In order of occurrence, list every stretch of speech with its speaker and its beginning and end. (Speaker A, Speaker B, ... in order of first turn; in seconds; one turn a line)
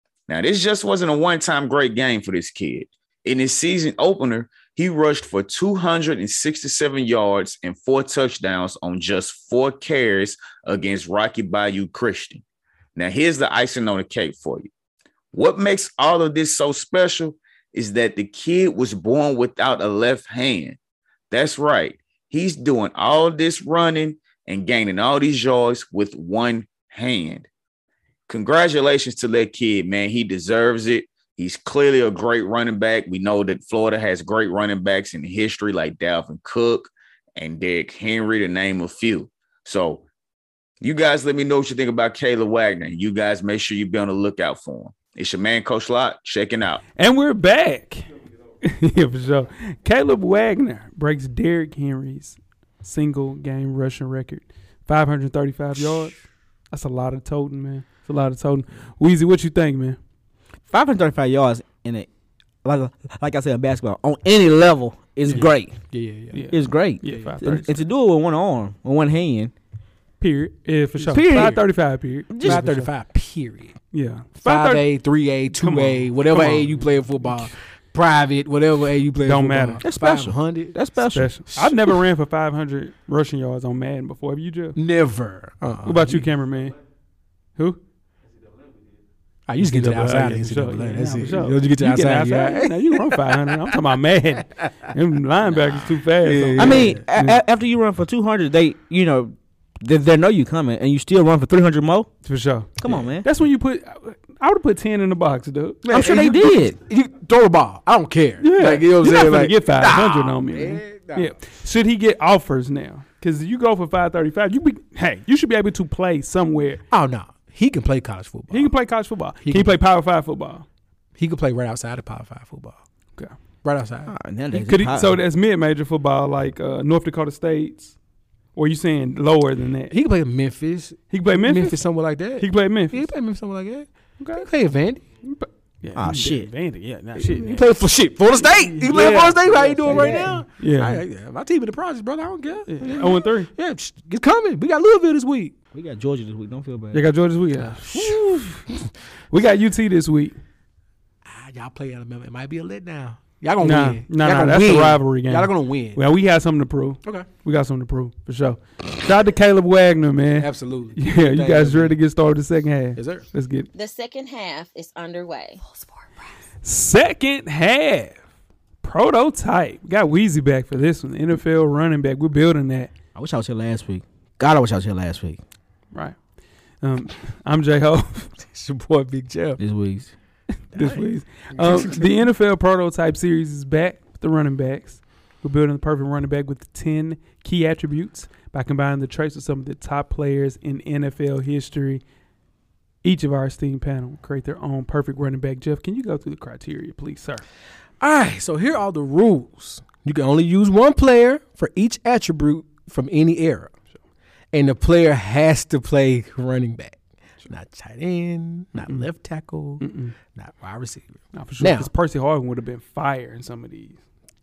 Speaker A: 0.3-12.4
Speaker A: 12.9-14.7
Speaker A: 15.3-20.8
Speaker A: 21.3-27.5
Speaker A: 28.3-40.0
Speaker A: 40.8-46.8
Speaker B: 47.0-48.1
Speaker B: 48.6-56.2
Speaker B: 56.7-60.0
Speaker C: 60.7-62.1
Speaker C: 62.6-65.8
Speaker D: 65.3-66.5
Speaker B: 66.3-67.8
Speaker C: 66.5-69.5
Speaker D: 67.1-67.3
Speaker B: 70.2-72.9
Speaker C: 71.1-71.6
Speaker C: 72.3-72.6
Speaker D: 72.4-73.8
Speaker B: 73.9-74.9
Speaker D: 74.4-81.8
Speaker B: 75.5-77.5
Speaker B: 79.2-79.8
Speaker C: 79.8-81.3
Speaker B: 81.1-84.8
Speaker D: 84.8-86.3
Speaker B: 85.8-86.8
Speaker D: 89.5-93.8
Speaker B: 89.6-97.4
Speaker D: 96.2-97.0
Speaker C: 96.6-102.1
Speaker B: 102.2-106.2
Speaker C: 102.8-103.3
Speaker D: 105.8-111.3
Speaker C: 105.9-106.8
Speaker B: 108.4-116.8
Speaker D: 116.9-118.7
Speaker B: 118.5-120.7
Speaker D: 119.4-119.8
Speaker D: 121.2-122.8
Speaker D: 123.6-124.1
Speaker C: 124.1-125.2
Speaker B: 124.5-127.9
Speaker B: 128.6-130.0
Speaker D: 129.9-135.0
Speaker B: 131.1-131.8
Speaker B: 132.4-133.1
Speaker B: 134.2-134.5
Speaker B: 135.3-137.6
Speaker C: 136.0-136.5
Speaker D: 137.2-145.6
Speaker B: 138.4-141.0
Speaker C: 139.4-140.4
Speaker B: 142.7-143.5
Speaker C: 145.7-147.0
Speaker B: 146.9-148.7
Speaker D: 147.7-148.2
Speaker B: 149.3-150.4
Speaker D: 151.2-156.0
Speaker B: 153.6-163.7
Speaker D: 160.3-162.0
Speaker D: 163.0-163.2
Speaker E: 163.7-166.2
Speaker B: 166.6-168.2
Speaker B: 168.8-172.9
Speaker C: 173.2-175.4
Speaker B: 176.8-178.3
Speaker D: 178.4-179.6
Speaker C: 179.6-180.1
Speaker B: 180.7-192.0
Speaker D: 180.7-182.2
Speaker B: 193.0-197.4
Speaker D: 198.0-203.7
Speaker D: 204.5-209.8
Speaker B: 208.8-209.1
Speaker B: 209.8-210.2
Speaker D: 210.3-211.9
Speaker B: 211.3-214.0